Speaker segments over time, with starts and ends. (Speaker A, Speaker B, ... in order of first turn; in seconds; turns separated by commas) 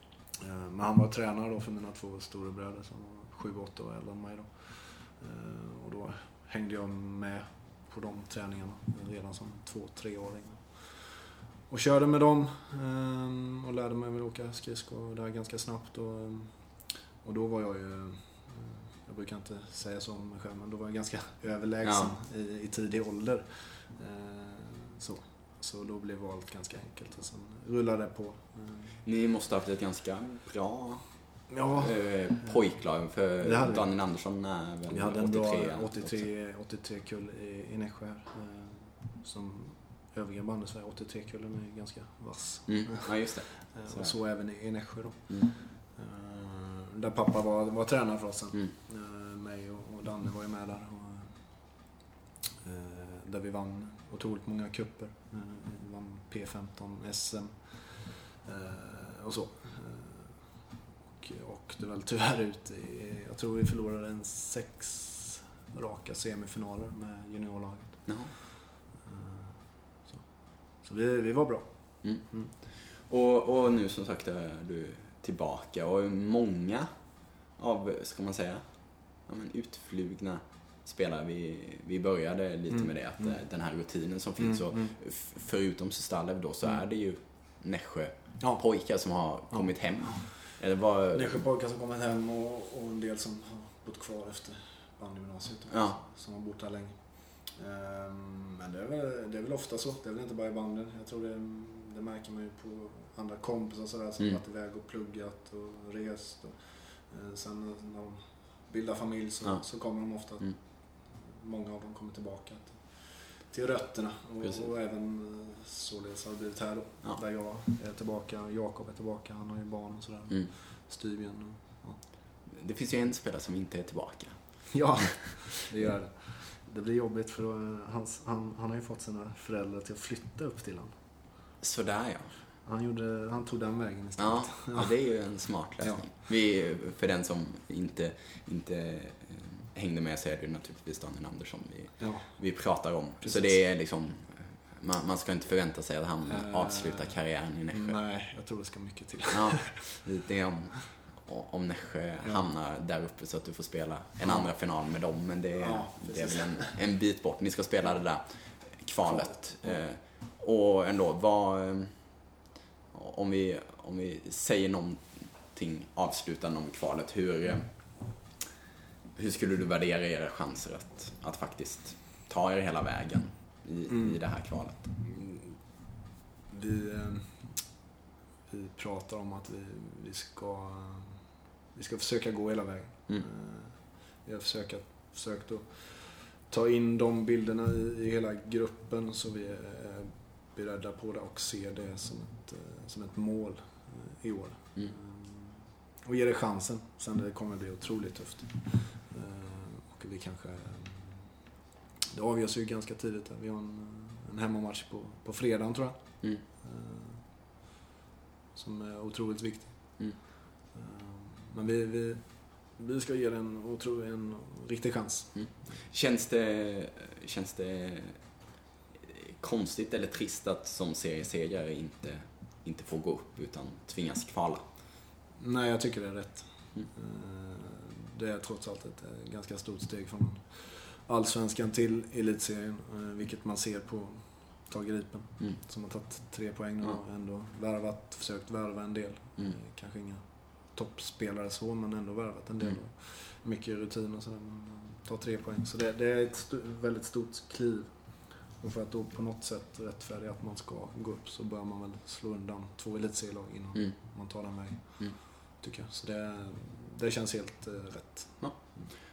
Speaker A: 0.4-28.9, Speaker B: 21.8-22.1, Speaker B: 29.0-36.3, Speaker A: 31.5-32.6, Speaker A: 33.4-33.9, Speaker A: 34.9-51.4, Speaker B: 42.7-44.1, Speaker A: 52.6-60.5, Speaker A: 61.1-68.5, Speaker B: 68.1-68.3, Speaker A: 69.0-72.5, Speaker B: 72.0-76.9, Speaker B: 77.5-91.4, Speaker A: 82.7-83.4, Speaker A: 84.4-84.9, Speaker A: 89.5-90.4, Speaker A: 91.1-122.0, Speaker B: 95.7-96.0, Speaker B: 122.5-124.8, Speaker A: 124.7-130.9, Speaker B: 131.6-132.4, Speaker A: 132.6-135.0, Speaker B: 134.2-148.0, Speaker A: 135.8-136.1, Speaker A: 142.0-142.3, Speaker A: 143.2-143.6, Speaker A: 146.3-147.1, Speaker A: 147.7-150.0, Speaker B: 149.3-162.2, Speaker A: 155.6-156.8, Speaker A: 159.0-159.8, Speaker B: 162.9-168.1, Speaker B: 169.2-174.9, Speaker A: 173.9-174.2, Speaker A: 174.7-175.7, Speaker A: 176.5-177.7, Speaker A: 178.5-201.2, Speaker A: 202.1-207.2, Speaker A: 208.5-215.7, Speaker B: 215.4-218.2, Speaker B: 219.0-224.7, Speaker A: 225.4-258.9, Speaker B: 258.4-258.7